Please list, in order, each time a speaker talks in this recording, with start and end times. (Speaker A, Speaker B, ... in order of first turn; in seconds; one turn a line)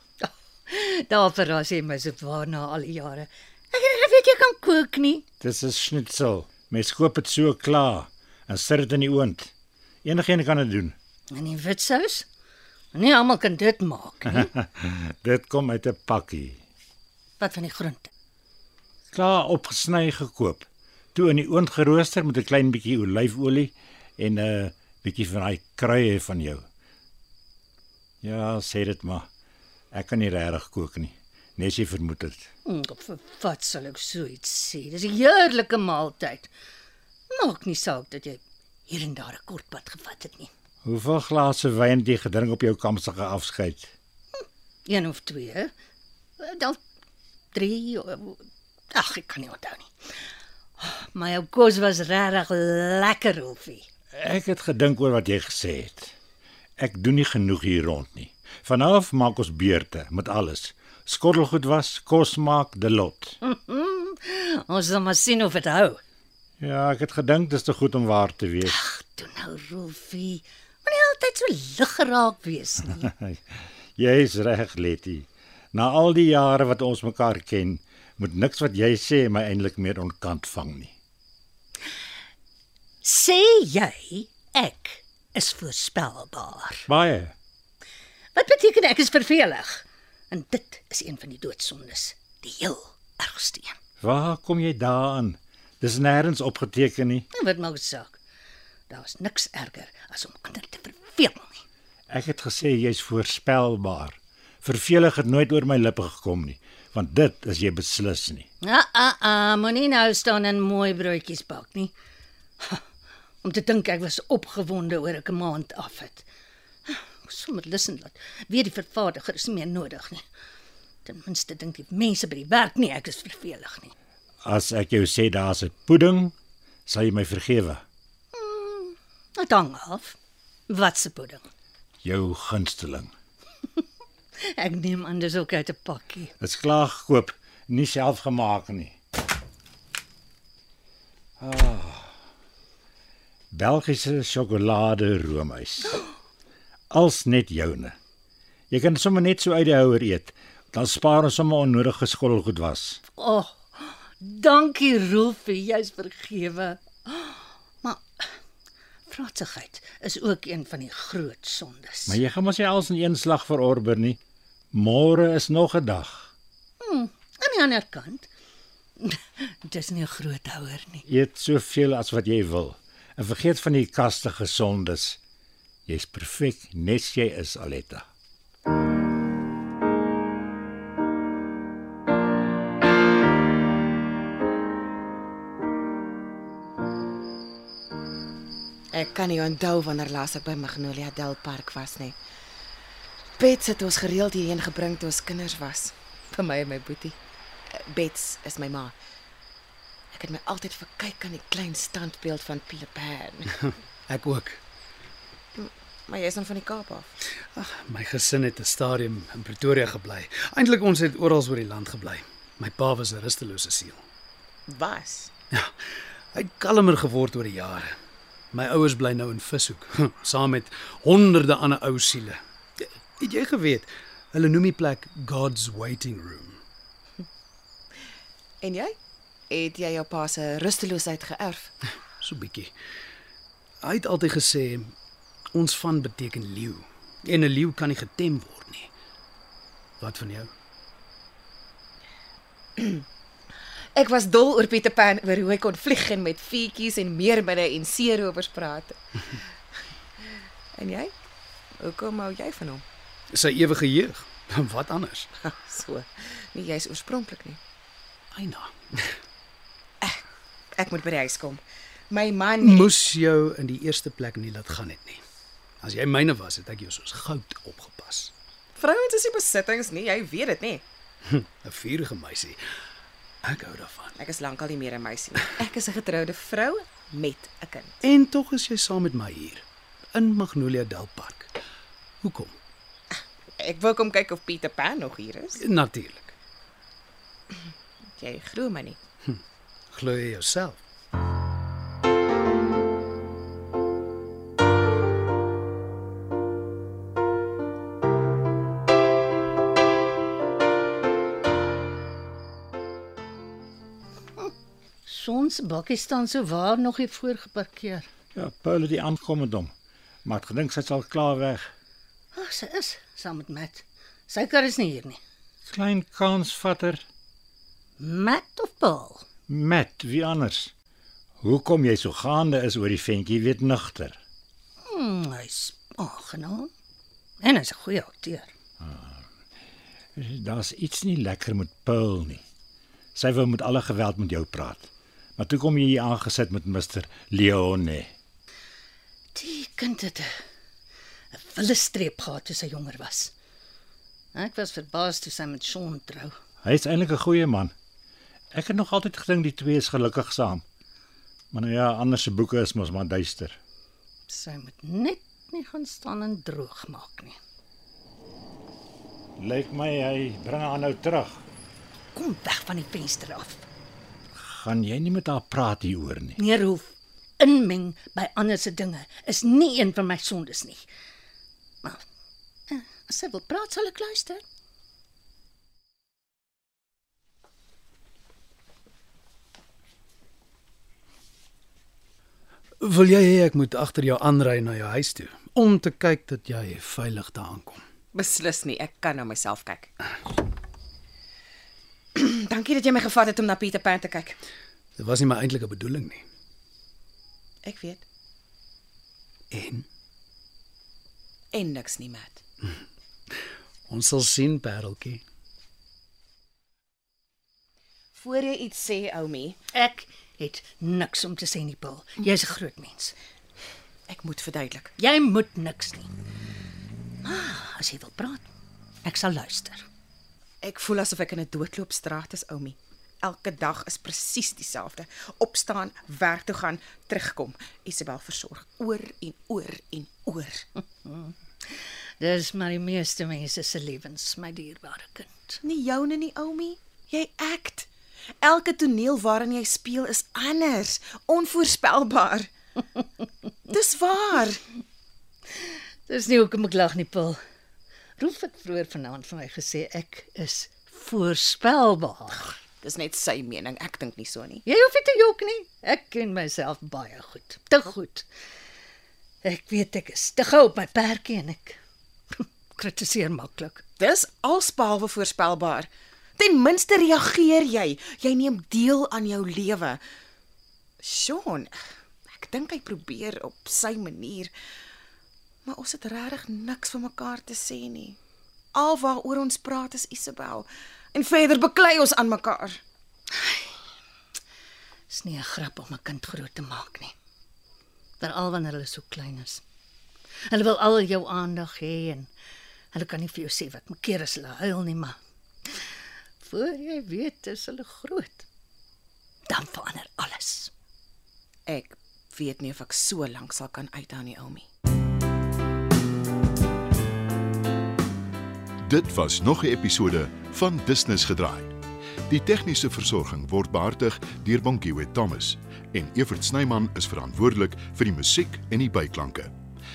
Speaker A: 0.2-5.3
Speaker B: 5.4-9.5
Speaker B: 10.0-11.0
Speaker A: 11.3-12.3
Speaker A: 12.9-14.5
Speaker B: 14.3-16.6
Speaker A: 17.4-18.1
Speaker B: 19.1-26.6
Speaker B: 28.2-29.3
Speaker B: 29.9-32.5
Speaker A: 32.6-36.5
Speaker A: 37.3-40.5
Speaker B: 40.9-43.9
Speaker A: 44.9-45.7
Speaker A: 46.4-46.8
Speaker A: 47.5-49.9
Speaker A: 50.8-53.9
Speaker B: 54.1-56.1
Speaker B: 56.8-63.4
Speaker A: 63.4-66.0
Speaker B: 66.6-68.8
Speaker A: 68.6-73.1
Speaker B: 73.0-73.4
Speaker B: 74.0-80.9
Speaker A: 83.0-86.9
Speaker B: 86.9-87.3
Speaker A: 88.3-93.8
Speaker B: 94.0-97.3
Speaker A: 97.3-98.2
Speaker A: 98.9-101.6
Speaker B: 102.1-108.5
Speaker A: 108.6-111.9
Speaker A: 113.4-116.2
Speaker A: 116.9-120.2
Speaker A: 121.0-123.9
Speaker B: 124.4-126.3
Speaker B: 126.9-127.8
Speaker A: 128.3-130.2
Speaker A: 130.7-131.4
Speaker B: 132.0-133.1
Speaker A: 134.4-136.3
Speaker B: 136.4-139.0
Speaker B: 141.4-142.1
Speaker B: 143.5-146.0
Speaker B: 146.9-148.0
Speaker B: 148.7-153.0
Speaker A: 153.1-158.3
Speaker A: 159.1-162.2
Speaker B: 162.1-164.2
Speaker B: 164.7-166.3
Speaker A: 166.8-168.3
Speaker A: 169.0-171.1
Speaker B: 171.1-175.2
Speaker B: 175.9-178.1
Speaker C: 188.9-192.2
Speaker C: 193.4-197.2
Speaker C: 197.7-198.9
Speaker C: 200.1-203.5
Speaker D: 204.1-204.6
Speaker C: 205.6-207.1
Speaker D: 207.5-214.0
Speaker C: 214.7-215.3
Speaker D: 216.3-217.9
Speaker D: 218.5-226.6
Speaker C: 228.6-229.0
Speaker C: 229.5-231.7
Speaker D: 232.2-232.7
Speaker D: 233.8-234.9
Speaker D: 235.5-238.9
Speaker D: 240.0-240.5
Speaker C: 242.8-243.1
Speaker C: 243.9-249.0
Speaker C: 250.7-251.1
Speaker C: 251.8-252.8
Speaker D: 253.3-255.3
Speaker C: 255.4-257.6
Speaker D: 258.3-259.1
Speaker C: 260.8-262.9
Speaker D: 262.6-265.2
Speaker D: 265.8-268.3
Speaker C: 268.8-270.8
Speaker D: 271.2-272.6
Speaker D: 273.4-274.1
Speaker C: 274.2-278.0
Speaker D: 278.0-281.6
Speaker D: 282.2-282.6
Speaker C: 283.1-285.6
Speaker D: 285.6-286.3
Speaker C: 288.2-289.0
Speaker D: 289.2-290.8
Speaker A: 305.1-308.1
Speaker B: 308.4-309.7
Speaker B: 310.2-311.7
Speaker A: 312.3-315.2
Speaker B: 315.7-317.1
Speaker A: 318.0-319.3
Speaker B: 319.5-320.7
Speaker B: 321.4-324.2
Speaker A: 324.8-326.7
Speaker A: 327.4-328.5
Speaker B: 328.8-329.2
Speaker B: 330.1-332.4
Speaker B: 333.1-338.1
Speaker A: 339.3-340.3
Speaker A: 341.3-343.3
Speaker A: 344.3-346.4
Speaker B: 346.6-347.7
Speaker B: 348.5-350.6
Speaker B: 351.5-353.6
Speaker A: 354.3-357.4
Speaker B: 359.4-361.4
Speaker A: 362.1-363.6
Speaker B: 364.4-366.4
Speaker A: 366.4-370.9
Speaker A: 372.7-374.4
Speaker D: 382.8-387.8
Speaker C: 388.1-389.9
Speaker C: 392.1-394.4
Speaker D: 395.0-396.3
Speaker C: 397.6-398.0
Speaker D: 399.5-399.9
Speaker C: 401.5-402.4
Speaker D: 403.9-405.2
Speaker C: 408.1-409.6
Speaker A: 409.7-413.1
Speaker C: 414.1-414.9
Speaker A: 415.0-416.1
Speaker A: 417.2-418.5
Speaker A: 419.0-419.9
Speaker C: 420.6-430.6
Speaker A: 431.1-435.6
Speaker C: 435.6-437.9
Speaker C: 438.4-442.5
Speaker C: 443.7-444.6
Speaker A: 445.6-447.4
Speaker A: 448.2-452.6
Speaker C: 452.8-454.6
Speaker A: 454.6-458.3
Speaker A: 459.4-461.8
Speaker A: 462.3-463.9
Speaker C: 464.0-470.0
Speaker C: 471.0-471.8
Speaker C: 472.3-474.5
Speaker C: 475.7-478.2
Speaker C: 478.7-482.8
Speaker A: 483.3-483.7
Speaker A: 485.1-487.1
Speaker A: 488.2-489.6
Speaker A: 490.5-492.3
Speaker A: 492.9-495.2
Speaker A: 496.4-498.5
Speaker A: 499.5-500.7
Speaker C: 501.7-504.7
Speaker E: 508.8-511.8
Speaker E: 512.3-519.5